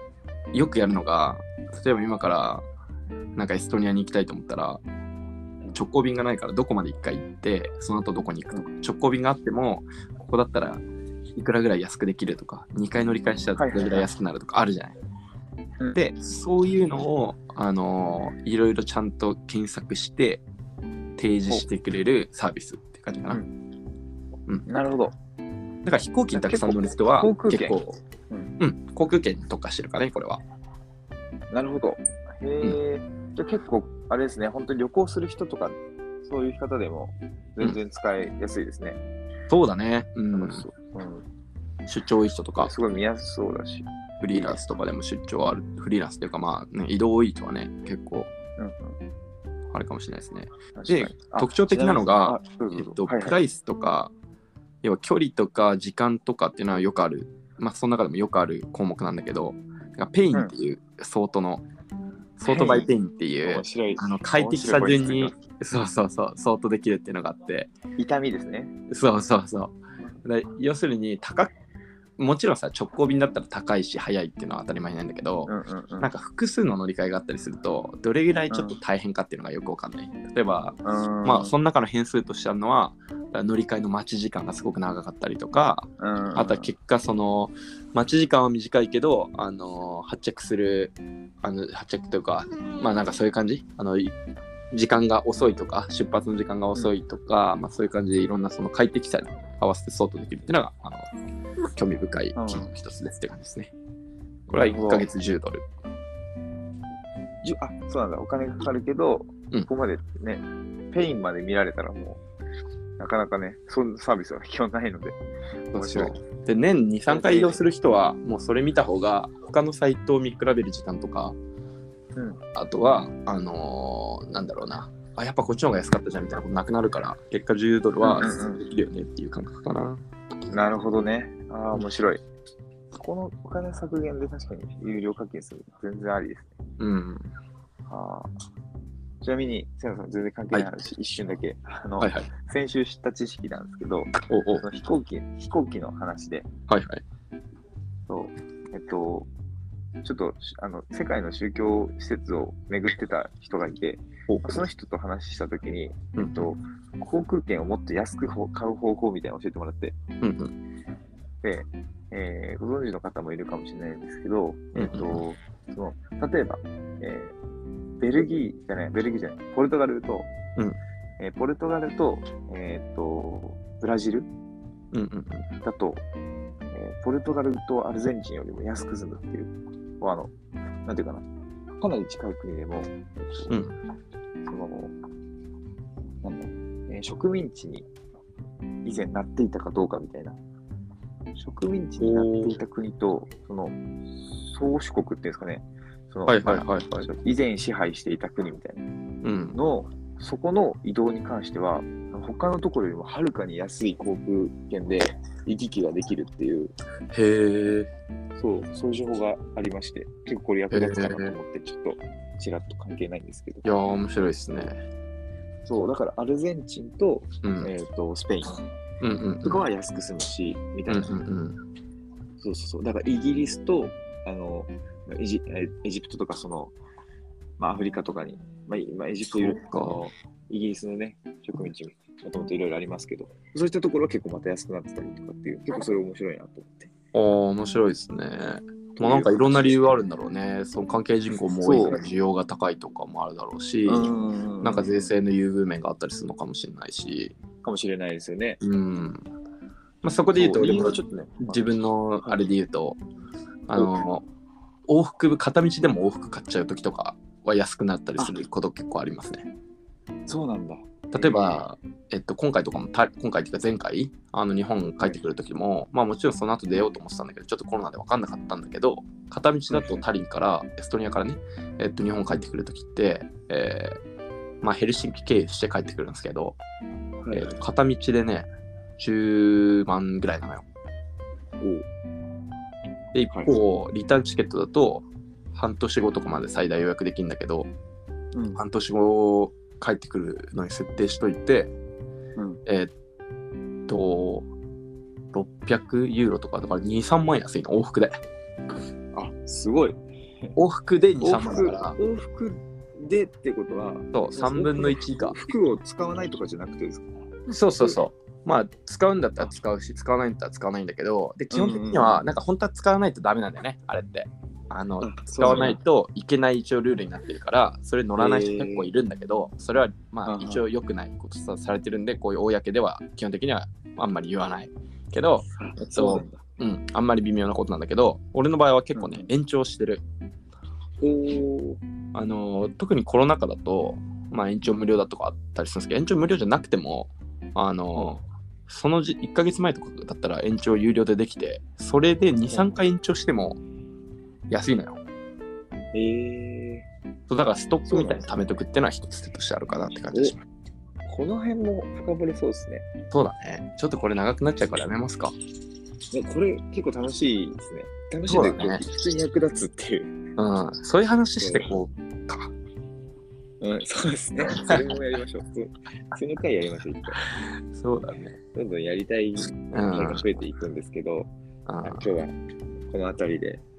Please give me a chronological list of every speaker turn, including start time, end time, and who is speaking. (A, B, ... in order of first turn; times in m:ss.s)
0:00.5-0:02.6 A
0:03.4-0:04.8 A
0:05.7-0:10.8 A
0:11.4-0:15.0 A
0:13.6-0:14.1 B
0:15.9-0:20.4 A
0:21.2-0:23.4 A
0:24.6-0:25.1 B
0:25.8-0:28.0 A
0:26.3-0:27.8 B
0:28.3-0:28.6 B
0:28.6-0:30.4 A
0:31.5-0:39.0 B
0:39.5-0:40.6 A
0:40.3-0:41.2 B
0:41.9-0:42.7 A
0:42.6-0:44.6 B
0:44.2-0:48.3 A
0:48.6-0:49.0 B
0:49.7-0:54.1 A
0:50.7-0:53.4 B
0:54.8-1:01.6 A
1:02.4-1:07.7 A
1:02.4-1:02.9 B
1:03.4-1:05.4 B
1:08.0-1:08.7 B
1:08.9-1:11.5 A
1:12.2-1:34.2 A
1:15.4-1:16.1 B
1:18.5-1:18.8 B
1:20.8-1:21.5 B
1:26.0-1:26.7 B
1:34.7-1:41.1 A
1:41.8-1:43.7 A
1:42.3-1:42.7 B
1:44.5-1:45.6 A
1:44.5-1:45.1 B
1:47.4-1:52.2 B
1:53.0-1:55.2 B
1:55.7-1:56.1 B
1:55.7-2:01.4 A
1:57.1-1:57.6 B
2:02.1-2:02.4 B
2:02.5-2:10.0 A
2:08.0-2:08.6 B
2:10.5-2:12.2 B
2:12.9-2:16.5 B
2:16.8-2:17.3 A
2:17.9-2:18.3 B
2:19.2-2:26.5 B
2:22.0-2:22.3 A
2:24.3-2:24.6 A
2:26.7-2:27.0 A
2:28.1-2:29.3 B
2:30.0-2:40.0 B
2:34.3-2:34.6 A
2:36.2-2:36.5 A
2:40.2-2:40.5 A
2:41.4-2:47.3 B
2:44.7-2:45.2 A
2:48.0-2:50.3 B
2:51.2-2:54.3 B
2:54.9-2:55.4 A
2:55.6-2:56.0 B
2:56.7-3:00.3 B
3:00.8-3:01.2 B
3:01.8-3:03.6 B
3:03.5-3:03.8 A
3:04.4-3:04.9 B
3:06.2-3:07.9 B
3:08.8-3:10.4 B
3:11.4-3:13.8 B
3:12.0-3:12.6 A
3:14.4-3:18.8 B
3:16.3-3:17.1 A
3:19.2-3:19.6 A
3:19.5-3:26.7 B
3:27.1-3:27.9 A
3:28.4-3:33.7 B
3:30.7-3:31.3 A
3:33.6-3:34.8 A
3:35.6-3:38.6 B
3:37.4-3:37.7 A
3:39.0-3:39.6 A
3:39.4-3:41.1 B
3:40.9-3:41.6 A
3:42.4-3:46.7 B
3:47.6-3:56.9 B
3:49.3-3:50.0 A
3:57.1-4:07.4 A
3:59.0-3:59.8 B
4:01.6-4:02.0 B
4:03.8-4:05.1 B
4:07.6-4:08.6 B
4:08.6-4:09.2 A
4:10.0-4:13.0 A
4:10.3-4:11.6 B
4:13.7-4:14.2 A
4:13.7-4:14.0 B
4:14.9-4:19.5 A
4:20.3-4:21.6 B
4:21.1-4:34.0 A
4:29.7-4:30.0 B
4:34.6-4:36.6 A
4:37.2-4:37.6 B
4:37.3-4:38.5 A
4:39.0-4:40.6 A
4:41.6-4:41.8 B
4:43.1-4:47.7 A
4:48.3-4:48.6 B
4:48.5-4:51.7 A
4:52.4-4:52.6 B
4:52.6-4:52.9 A
4:53.9-4:54.5 A
4:55.3-4:58.2 A
4:59.1-5:00.6 B
5:00.6-5:02.0 A
5:01.2-5:07.1 B
5:04.1-5:05.4 A
5:07.5-5:30.0 A
5:11.5-5:12.2 B
5:15.0-5:15.8 B
5:18.2-5:18.9 B
5:20.2-5:20.6 B
5:25.6-5:26.4 B
5:28.9-5:29.3 B
5:31.0-5:31.8 B
5:32.1-5:43.6 A
5:42.5-5:42.8 B
5:44.5-5:45.0 A
5:45.9-5:46.9 B
5:47.3-5:50.4 A
5:47.9-5:48.6 B
5:51.0-5:52.9 B
5:53.1-5:55.3 A
5:56.1-6:00.2 B
5:58.3-5:58.8 A
6:00.4-6:02.5 A
6:01.4-6:01.7 B
6:03.6-6:07.2 B
6:04.5-6:04.8 A
6:07.4-6:08.3 A
6:08.5-6:11.3 B
6:09.7-6:10.2 A
6:11.7-6:12.1 A
6:11.8-6:12.3 B
6:12.9-6:13.6 B